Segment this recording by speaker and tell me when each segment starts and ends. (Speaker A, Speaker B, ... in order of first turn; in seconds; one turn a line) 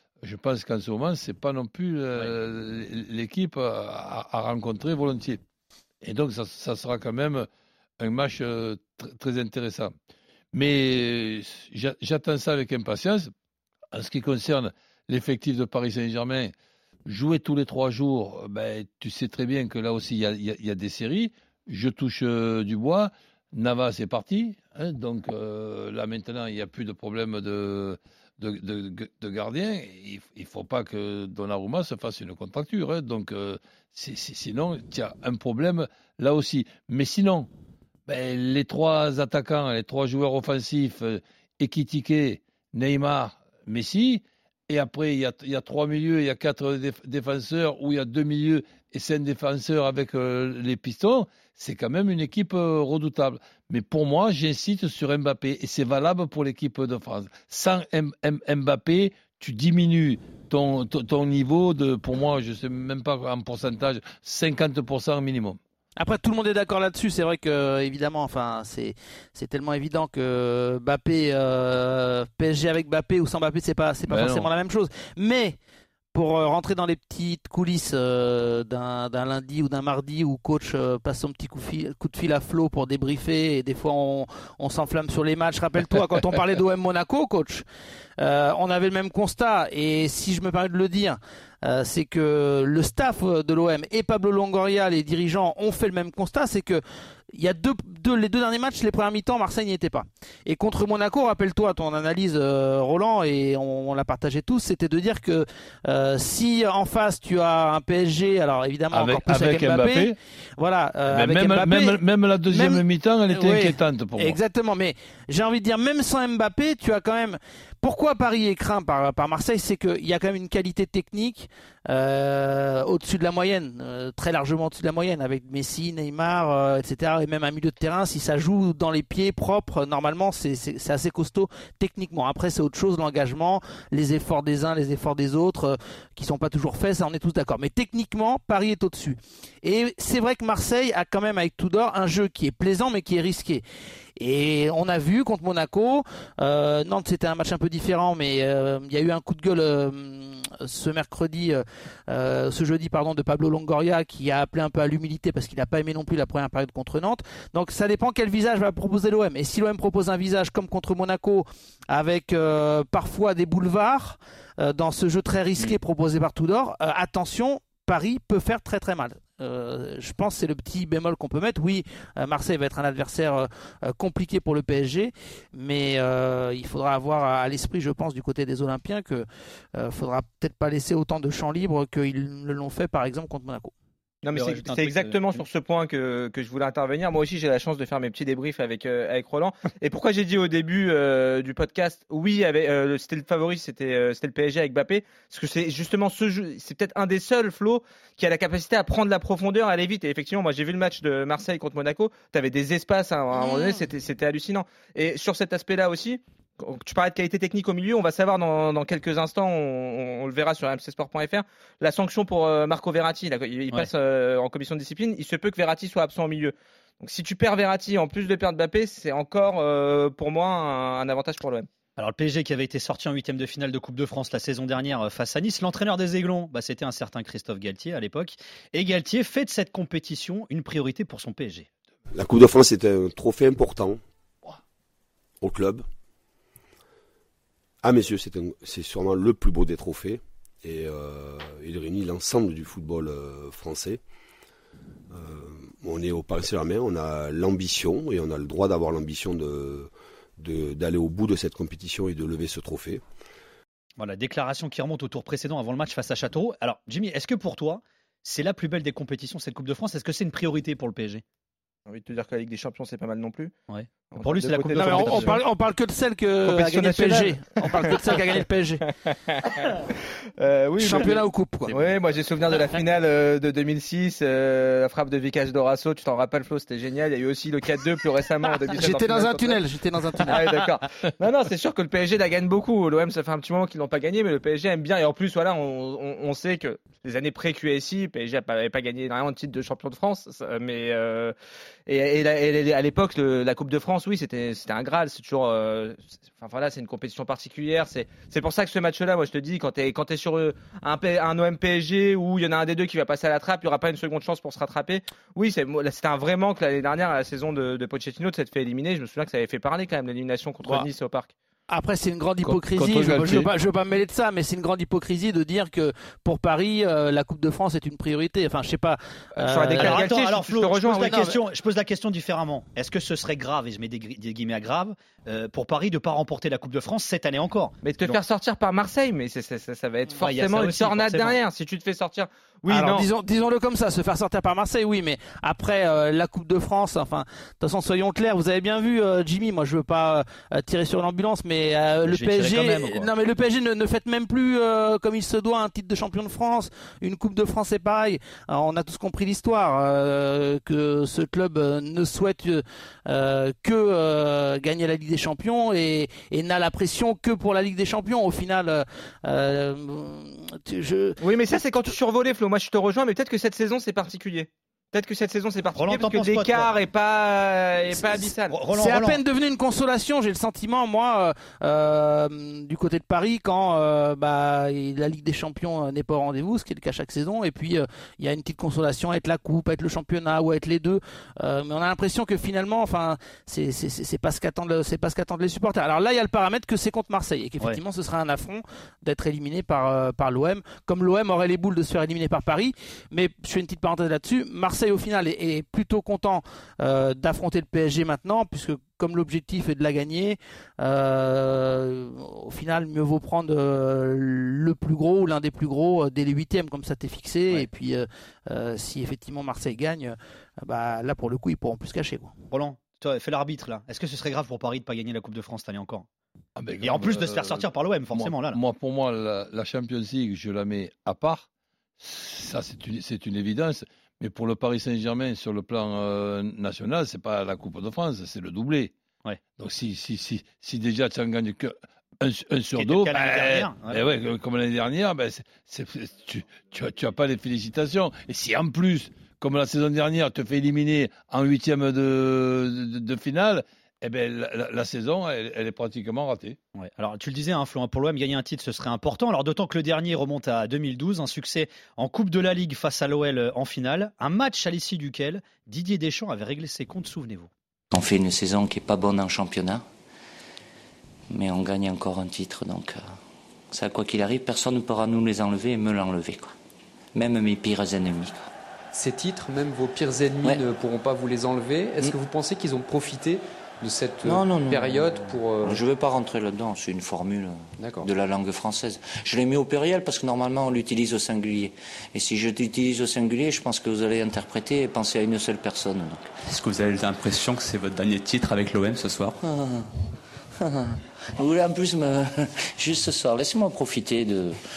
Speaker A: 0.2-5.4
Speaker A: 6.0-7.5
Speaker A: 8.0-9.9
Speaker A: 10.5-13.3
Speaker A: 13.9-16.5
Speaker A: 17.1-37.5
Speaker A: 38.1-65.6
Speaker B: 66.0-75.6
Speaker A: 74.1-74.5
Speaker B: 76.1-87.6
Speaker B: 88.2-96.8
Speaker B: 97.3-143.6
Speaker A: 108.9-110.2
Speaker A: 111.1-114.4
Speaker B: 144.2-183.7
Speaker C: 184.2-221.7
Speaker D: 184.3-185.4
Speaker B: 203.3-203.8
Speaker D: 222.0-231.7
Speaker E: 232.1-234.0
Speaker E: 235.4-235.8
Speaker E: 237.8-244.0
Speaker E: 245.1-253.0
Speaker D: 254.0-261.2
Speaker C: 261.9-263.5
Speaker D: 263.7-265.4
Speaker C: 264.1-265.4
Speaker B: 264.8-268.9
Speaker C: 266.4-268.3
Speaker C: 269.1-279.6
Speaker B: 270.8-271.7
Speaker B: 278.7-280.5
Speaker C: 280.2-291.3
Speaker C: 291.9-311.3
Speaker B: 311.7-320.0
Speaker A: 312.4-313.5
Speaker C: 319.4-321.3
Speaker D: 319.8-328.2
Speaker B: 320.9-321.3
Speaker C: 327.8-333.1
Speaker D: 330.2-331.4
Speaker B: 332.7-361.2
Speaker D: 342.0-343.1
Speaker C: 361.2-368.6
Speaker D: 365.8-366.7
Speaker D: 367.9-369.2
Speaker B: 368.7-412.3
Speaker D: 412.5-416.1
Speaker A: 416.6-421.4
Speaker D: 416.8-418.6
Speaker A: 422.0-428.9
Speaker A: 429.6-446.6
Speaker D: 432.7-434.0
Speaker D: 446.7-457.5
Speaker F: 457.9-459.8
Speaker F: 461.3-463.0
Speaker F: 463.7-466.5
Speaker F: 467.1-468.5
Speaker G: 468.9-475.8
Speaker F: 474.2-486.3
Speaker G: 477.8-478.1
Speaker H: 486.5-489.4
Speaker F: 489.4-489.9
Speaker F: 490.6-494.6